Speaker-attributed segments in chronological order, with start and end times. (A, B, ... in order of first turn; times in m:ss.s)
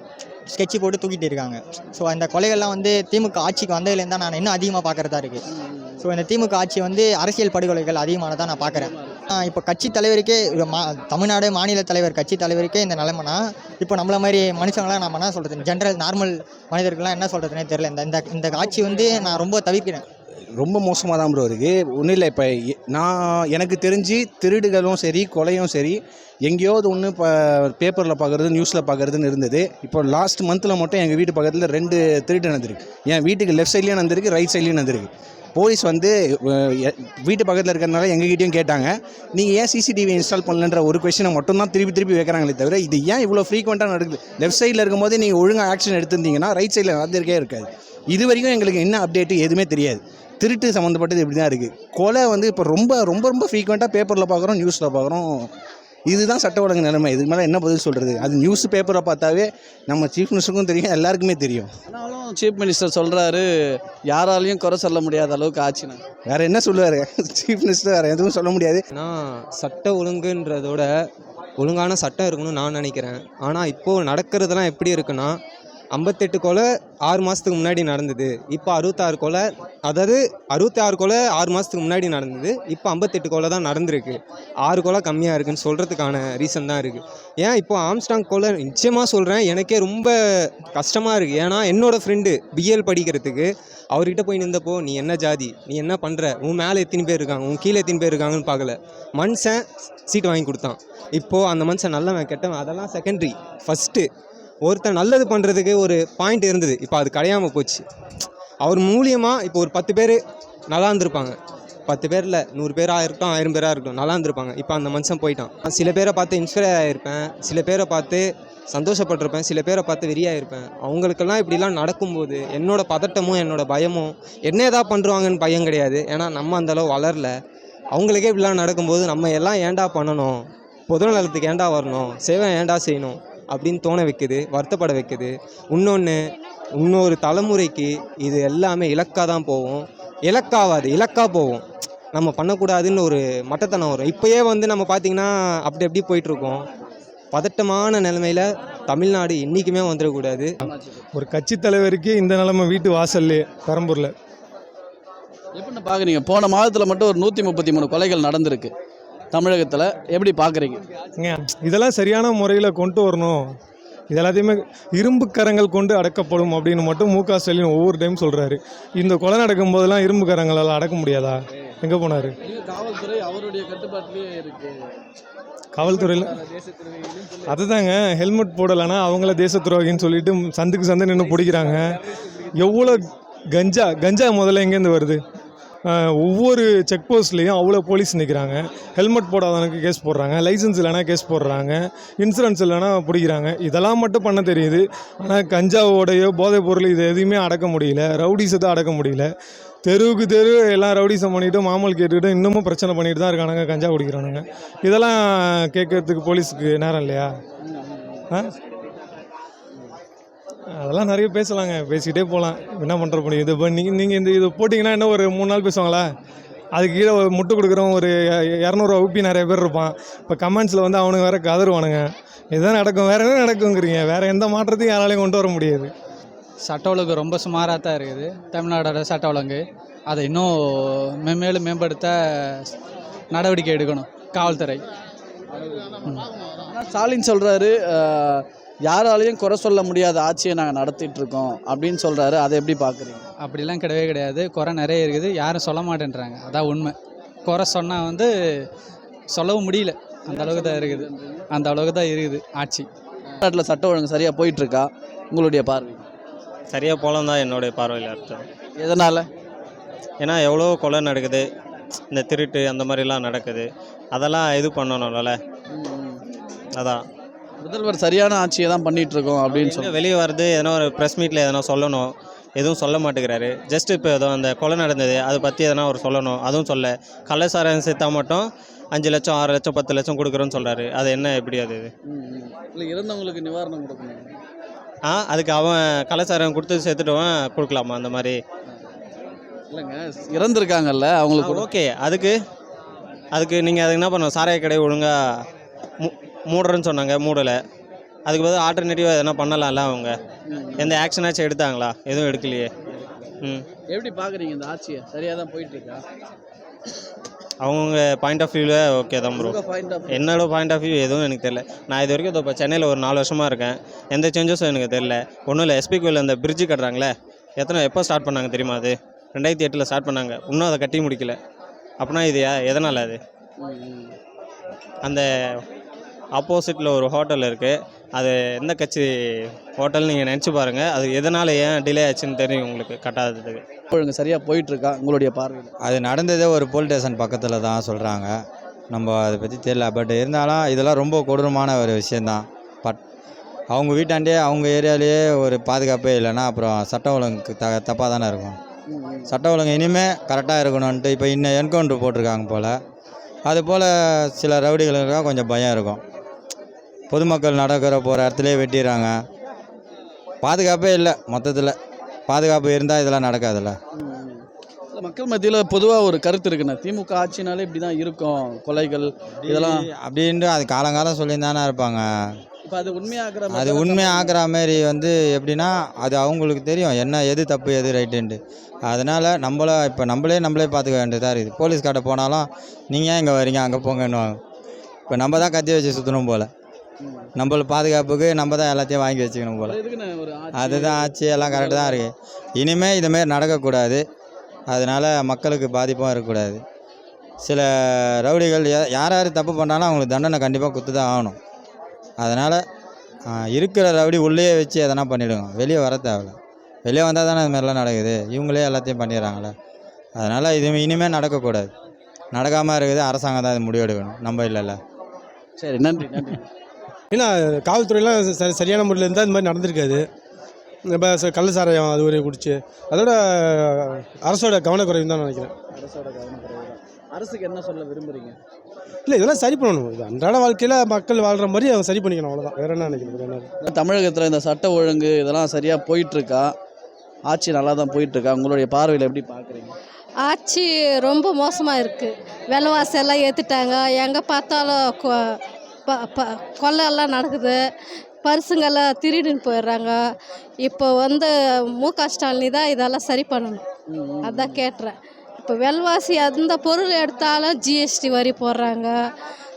0:00.5-0:05.4 A
0:05.5-0:06.1 B
0:06.0-0:20.0 A
0:08.7-0:09.2 B
0:20.6-0:55.5 C
0:56.1-1:01.7 C
1:01.9-1:03.5 B
1:04.1-1:06.0 B
1:06.3-1:08.8 C
1:08.9-1:10.9 D
1:11.6-1:15.4 D
1:15.9-1:44.1 D
1:44.6-1:47.8 D
1:48.6-2:07.3 D
2:07.9-2:16.2 D
2:16.8-2:26.6 D
2:27.3-2:30.6 D
2:30.6-2:31.0 B
2:31.2-2:34.1 E
2:35.6-2:38.7 B
2:39.3-2:40.8 B
2:41.2-2:43.4 E
2:44.1-2:52.4 E
2:52.4-2:54.8 B
2:55.8-2:56.3 E
2:55.8-2:57.5 B
2:57.5-3:01.8 E
3:02.6-3:05.2 E
3:05.9-3:19.3 E
3:19.8-3:27.3 E
3:27.6-3:28.2 B
3:30.7-3:36.1 E
3:36.7-3:45.9 E
3:46.6-3:52.7 F
3:53.3-3:54.8 F
3:54.4-3:54.7 B
3:55.5-4:03.3 B
4:03.4-4:08.7 F
4:09.3-4:12.9 F
4:10.3-4:11.4 B
4:13.4-4:16.1 B
4:16.7-4:18.5 G
4:18.8-4:19.3 B
4:20.2-4:21.5 G
4:22.1-4:25.4 G
4:25.7-4:26.2 B
4:26.8-4:27.0 G
4:27.6-4:30.0 B
4:29.5-4:41.9 G
4:42.1-4:44.3 B
4:45.1-4:48.4 G
4:49.7-4:51.7 B
4:51.4-4:52.4 G
4:53.3-4:55.1 G
4:56.0-4:57.6 G
4:58.3-5:00.1 G
5:00.5-5:01.0 B
5:00.8-5:02.7 G
5:02.9-5:03.3 B
5:03.9-5:06.0 B
5:07.6-5:09.6 G
5:09.4-5:10.4 B
5:10.1-5:21.4 G
5:22.0-5:23.2 G
5:23.6-5:24.1 B
5:26.4-5:29.1 G
5:29.8-5:33.6 G
5:33.9-5:35.7 B
5:35.8-5:38.3 H
5:38.9-5:43.0 H
5:43.7-5:48.6 H
5:48.9-5:49.3 B
5:49.3-5:52.8 H
5:53.5-5:56.0 H
5:57.1-5:59.1 H
6:00.4-6:01.8 H
6:02.3-6:03.8 H
6:04.0-6:09.8 B
6:09.5-6:12.0 H
6:12.7-6:14.4 B
6:13.5-6:24.4 H
6:25.1-6:26.5 H
6:27.0-6:27.3 B
6:27.4-6:29.8 H
6:29.6-6:32.0 B
6:30.6-6:34.0 H
6:34.7-6:36.6 H
6:37.4-6:41.4 H
6:42.2-6:42.6 H
6:43.3-6:49.5 H
6:50.2-6:51.7 H
6:52.3-6:54.8 H
6:55.6-6:56.5 B
6:57.1-7:00.1 I
7:00.9-7:05.5 I
7:05.7-7:08.4 B
7:09.1-7:13.5 I
7:12.8-7:16.5 B
7:17.3-7:19.8 B
7:20.2-7:25.2 J
7:25.9-7:27.6 J
7:28.2-7:30.0 J
7:30.6-7:31.3 J
7:31.8-7:33.6 J
7:33.9-7:34.6 B
7:34.2-7:34.9 J
7:35.4-7:38.9 J